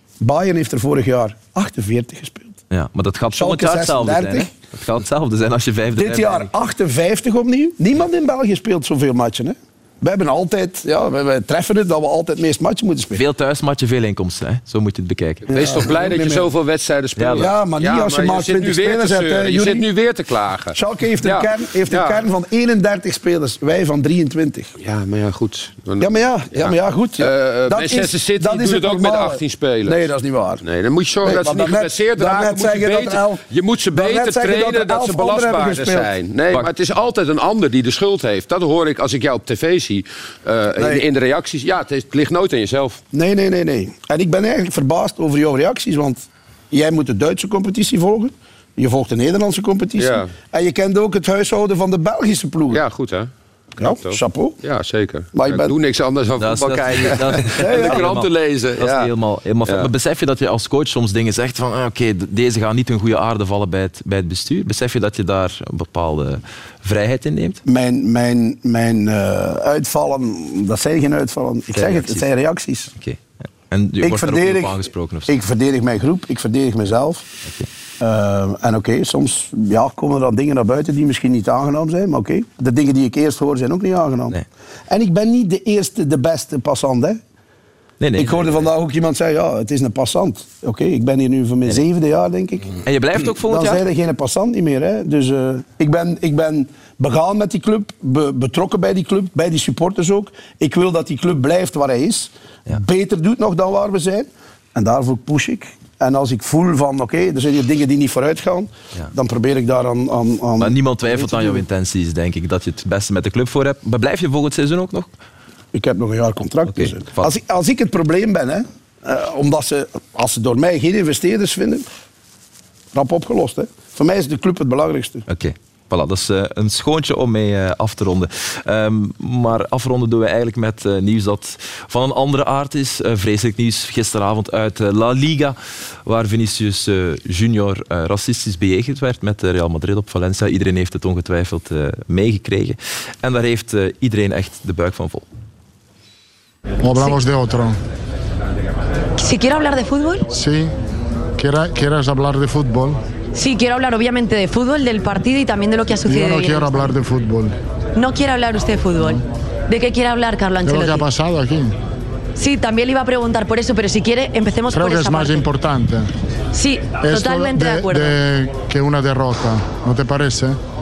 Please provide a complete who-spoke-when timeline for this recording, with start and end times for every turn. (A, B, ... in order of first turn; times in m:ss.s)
0:00.2-0:02.6 A
0:02.7-0:06.5 B
0:03.3-0:04.5 A
0:06.0-0:13.2 A
0:13.1-0:15.4 B
0:15.5-0:22.2 C
0:15.5-0:16.5 A
0:17.2-0:17.5 B
0:17.3-0:19.8 A
0:20.7-0:24.7 A
0:24.8-0:30.0 C
0:26.0-0:30.6 A
0:30.6-0:43.0 C
0:31.2-0:36.1 A
0:40.8-0:41.1 A
0:43.1-0:52.8 A
0:50.0-0:50.3 C
0:52.7-0:59.1 C
0:53.8-0:54.6 A
0:55.3-0:55.7 A
0:56.4-1:07.6 B
0:57.5-0:58.1 A
0:59.6-0:59.9 C
1:07.6-1:12.9 A
1:11.7-1:12.3 B
1:13.0-1:15.3 B
1:14.0-1:17.2 A
1:18.0-1:27.2 A
1:28.0-1:28.5 B
1:28.1-1:51.6 A
1:32.8-1:33.8 B
1:50.6-1:55.1 B
1:55.7-2:01.8 A
1:56.7-1:57.3 B
2:02.9-2:05.2 A
2:05.3-2:15.5 B
2:16.0-2:25.2 B
2:26.8-2:27.8 D
2:29.2-2:30.2 E
2:30.3-2:30.7 D
2:31.4-2:33.0 D
2:33.3-2:36.9 E
2:36.0-2:37.5 D
2:37.9-2:41.1 E
2:40.6-2:41.7 D
2:42.4-2:45.4 E
2:44.7-2:46.1 D
2:46.5-2:48.1 E
2:46.9-2:50.6 D